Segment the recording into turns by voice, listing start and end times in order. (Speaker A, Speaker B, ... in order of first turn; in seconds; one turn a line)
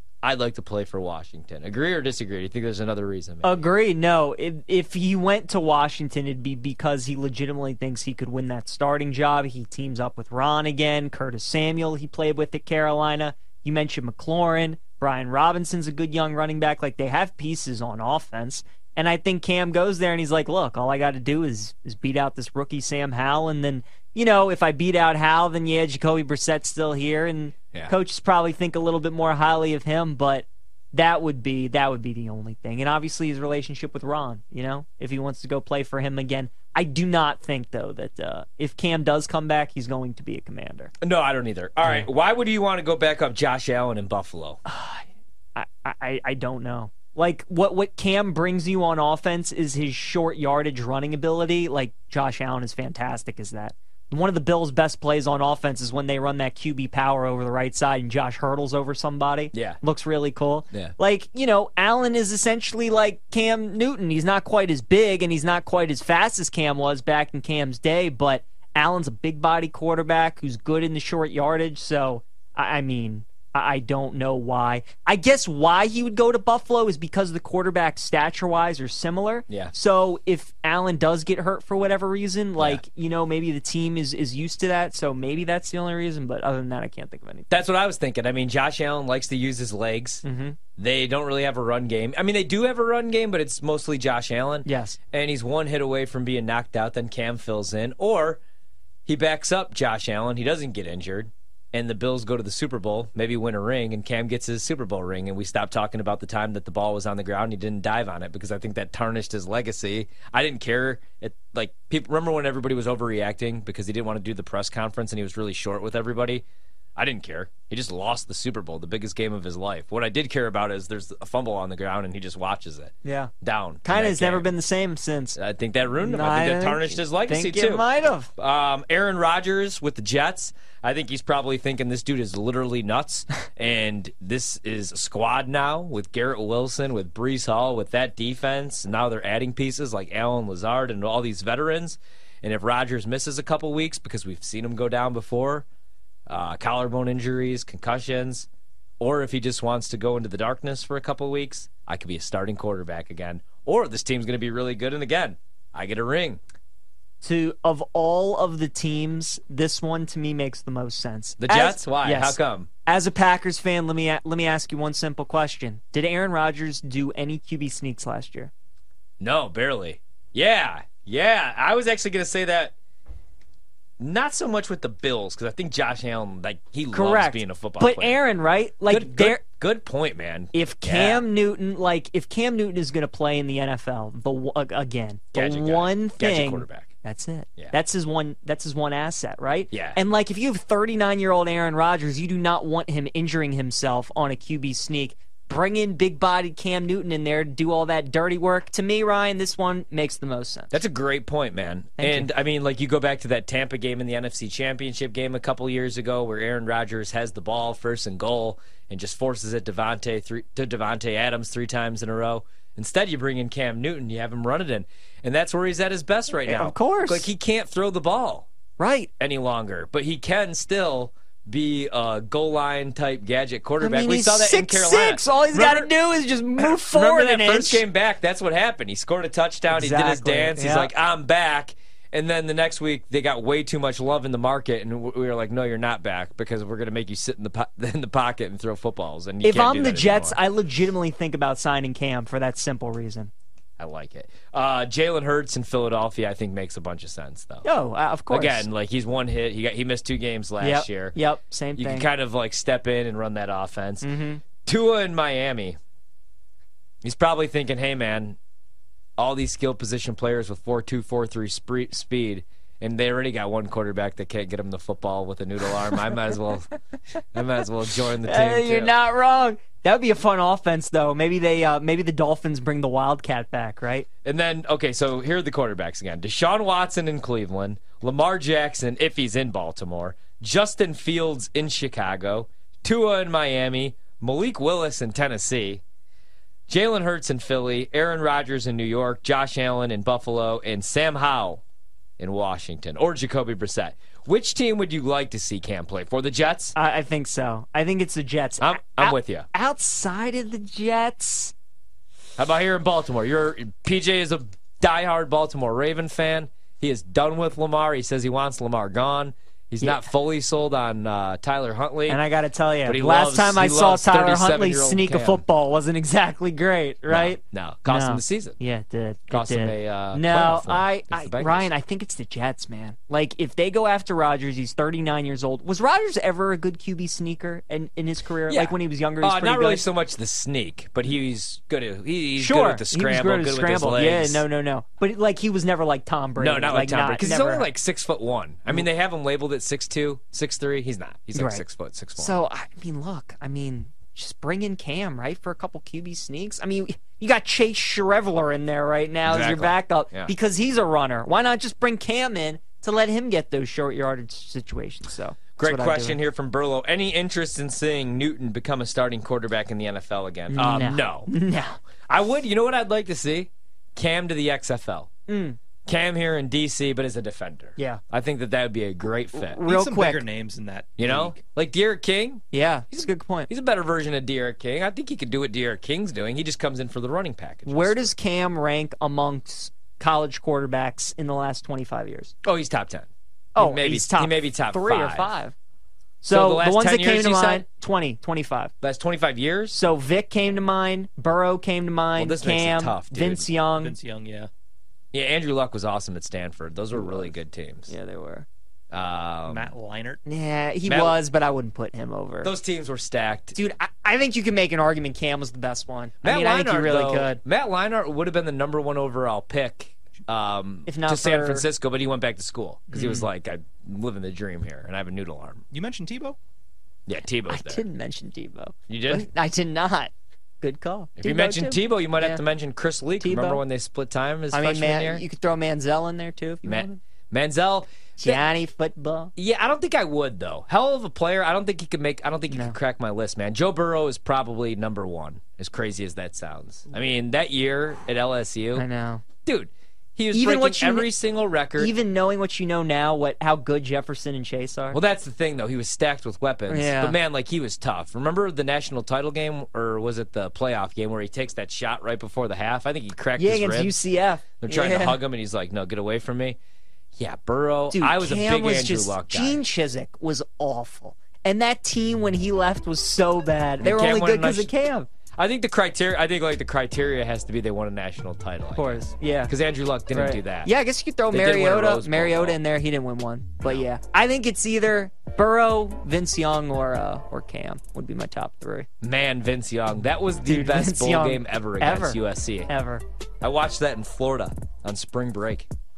Speaker A: 0.2-3.6
Speaker B: 3.4-40.9
Speaker A: 41.0-44.6
Speaker B: 44.7-87.6
Speaker A: 59.5-59.8
Speaker A: 87.5-90.2
Speaker B: 90.2-90.6
Speaker A: 90.8-98.4
Speaker B: 94.7-95.0
Speaker A: 99.1-116.4
Speaker A: 117.0-124.5
Speaker B: 123.0-123.3
Speaker B: 123.8-125.4
Speaker A: 125.4-145.7
Speaker B: 126.0-128.3
Speaker A: 146.3-148.5
Speaker A: 149.0-156.4
Speaker B: 157.2-168.5
Speaker A: 161.4-162.7
Speaker A: 169.2-172.8
Speaker A: 174.0-178.2
Speaker B: 176.9-179.4
Speaker A: 178.9-181.2
Speaker B: 180.5-200.7
Speaker A: 185.3-186.9
Speaker A: 189.7-190.0
Speaker A: 200.7-218.5
Speaker B: 202.0-202.3
Speaker B: 216.5-217.3
Speaker B: 218.8-219.1
Speaker A: 219.2-225.9
Speaker B: 223.8-227.8
Speaker A: 226.6-240.4
Speaker B: 229.7-230.9
Speaker B: 239.4-243.3
Speaker A: 243.8-247.7
Speaker B: 247.6-248.7
Speaker A: 248.3-251.2
Speaker B: 250.6-252.1
Speaker A: 251.8-254.1
Speaker B: 254.0-254.4
Speaker A: 254.6-255.8
Speaker A: 257.0-258.4
Speaker A: 259.2-266.7
Speaker A: 267.3-268.9
Speaker B: 268.2-274.1
Speaker A: 274.2-285.8
Speaker A: 286.7-291.6
Speaker A: 292.2-296.8
Speaker B: 296.8-301.5
Speaker A: 298.6-299.5
Speaker A: 302.4-312.2
Speaker B: 312.1-329.8
Speaker A: 312.9-315.4
Speaker A: 317.1-318.6
Speaker A: 319.3-321.7
Speaker A: 328.5-334.4
Speaker B: 332.4-337.7
Speaker A: 336.4-342.4
Speaker B: 341.4-341.6
Speaker B: 342.2-356.2
Speaker A: 349.3-350.3
Speaker A: 355.6-361.3
Speaker B: 360.5-361.8
Speaker A: 362.1-365.1
Speaker B: 365.3-365.6
Speaker A: 365.9-369.6
Speaker B: 367.8-368.0
Speaker B: 369.3-370.2
Speaker C: 369.6-371.4
Speaker A: 371.0-372.4
Speaker B: 372.5-373.5
Speaker A: 373.5-378.1
Speaker B: 377.7-382.3
Speaker A: 382.4-385.3
Speaker B: 383.6-385.6
Speaker B: 386.2-388.7
Speaker A: 386.3-387.6
Speaker A: 388.8-389.8
Speaker B: 389.7-394.0
Speaker A: 392.2-393.5
Speaker C: 393.8-394.5
Speaker A: 395.1-397.9
Speaker B: 396.9-397.3
Speaker B: 397.9-398.5
Speaker A: 398.9-399.7
Speaker C: 399.5-400.2
Speaker B: 400.3-402.5
Speaker A: 400.9-401.2
Speaker A: 402.4-403.6
Speaker B: 403.6-407.4
Speaker A: 406.2-415.6
Speaker B: 410.9-411.7
Speaker B: 412.9-413.3
Speaker C: 415.7-416.4
Speaker A: 417.1-417.8
Speaker B: 417.5-422.4
Speaker A: 418.9-419.3
Speaker A: 421.2-425.2
Speaker B: 423.2-423.6
Speaker B: 424.5-427.0
Speaker A: 426.6-428.4
Speaker B: 428.2-429.3
Speaker A: 429.4-438.9
Speaker B: 432.5-432.8
Speaker B: 438.8-439.2
Speaker A: 439.4-441.9
Speaker B: 440.3-441.1
Speaker B: 441.8-445.0
Speaker A: 444.9-454.0
Speaker B: 446.7-447.2
Speaker B: 453.4-455.2
Speaker A: 454.6-456.6
Speaker A: 457.2-459.6
Speaker B: 457.9-465.1
Speaker A: 463.8-464.7
Speaker A: 465.4-470.7
Speaker B: 468.8-469.5
Speaker B: 470.1-478.9
Speaker A: 471.3-472.6
Speaker A: 479.0-482.7
Speaker B: 480.5-483.0
Speaker A: 483.4-485.7